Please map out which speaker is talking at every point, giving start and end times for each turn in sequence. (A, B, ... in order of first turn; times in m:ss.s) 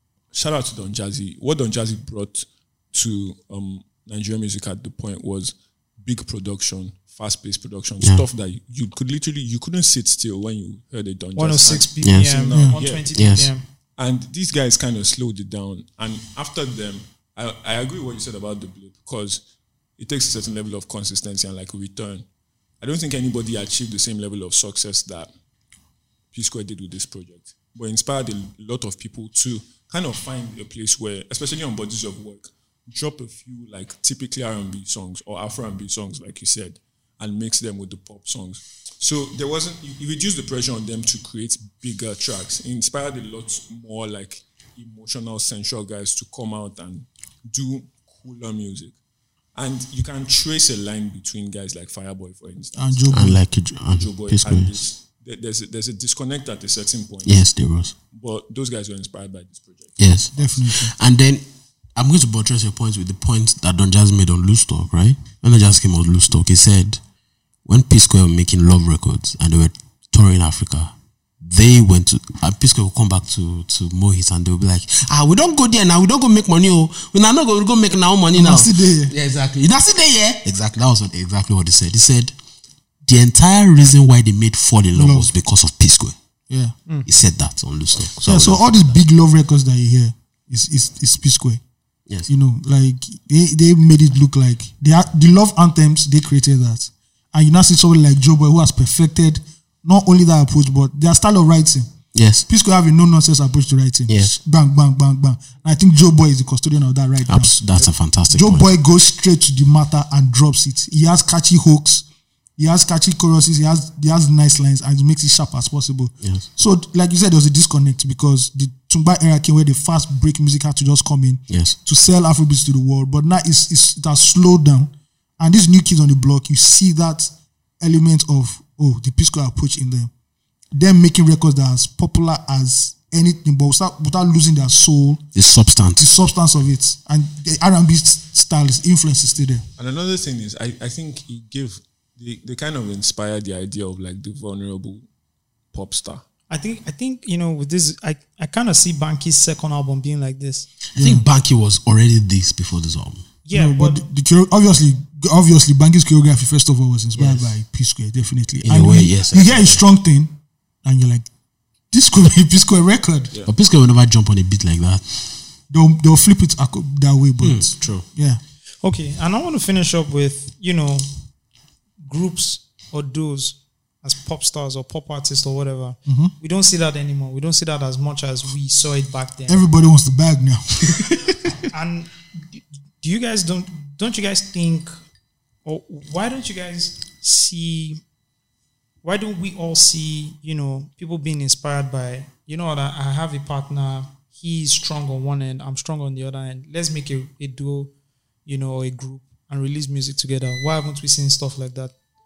0:00.3-0:13.1 A
0:11.4-0:13.6 B
0:12.0-0:12.4 C
0:13.1-0:13.5 C
0:14.0-0:19.4 A
0:20.0-0:22.2 A
0:22.8-0:25.3 A
0:26.3-0:49.0 A
0:49.5-0:53.3 A
0:52.8-0:53.4 D
0:53.1-0:54.8 C
0:53.9-0:57.5 A
0:57.2-0:57.9 C
0:58.1-1:00.5 A
1:00.0-1:01.4 C
1:00.3-1:00.9 D
1:01.9-1:07.0 C
1:07.6-1:22.3 C
1:18.3-1:19.1 D
1:23.0-1:26.2 C
1:24.9-1:25.3 D
1:26.5-1:26.7 D
1:27.0-1:29.0 C
1:28.1-1:31.6 D
1:32.3-1:41.9 D
1:42.1-1:42.5 C
1:42.5-1:47.5 D
1:44.1-1:44.3 C
1:47.3-1:48.7 C
1:48.3-1:52.0 D
1:52.6-2:10.1 D
2:01.5-2:01.8 C
2:10.7-2:15.2 D
2:15.3-2:16.1 C
2:16.0-2:19.6 D
2:19.8-2:25.1 A
2:25.7-2:26.2 A
2:26.5-2:30.7 B
2:30.9-2:33.2 C
2:31.0-2:31.3 D
2:33.4-2:34.0 B
2:33.5-2:41.3 D
2:37.2-2:37.5 C
2:38.6-2:39.8 C
2:41.9-2:43.3 D
2:43.4-2:45.3 C
2:45.7-2:48.4 D
2:47.4-2:48.0 C
2:48.8-2:51.1 B
2:52.0-2:59.7 B
2:56.1-2:56.3 D
2:59.5-3:01.6 D
3:01.7-3:04.9 B
3:05.6-3:08.0 B
3:09.0-3:17.9 B
3:18.4-3:21.9 B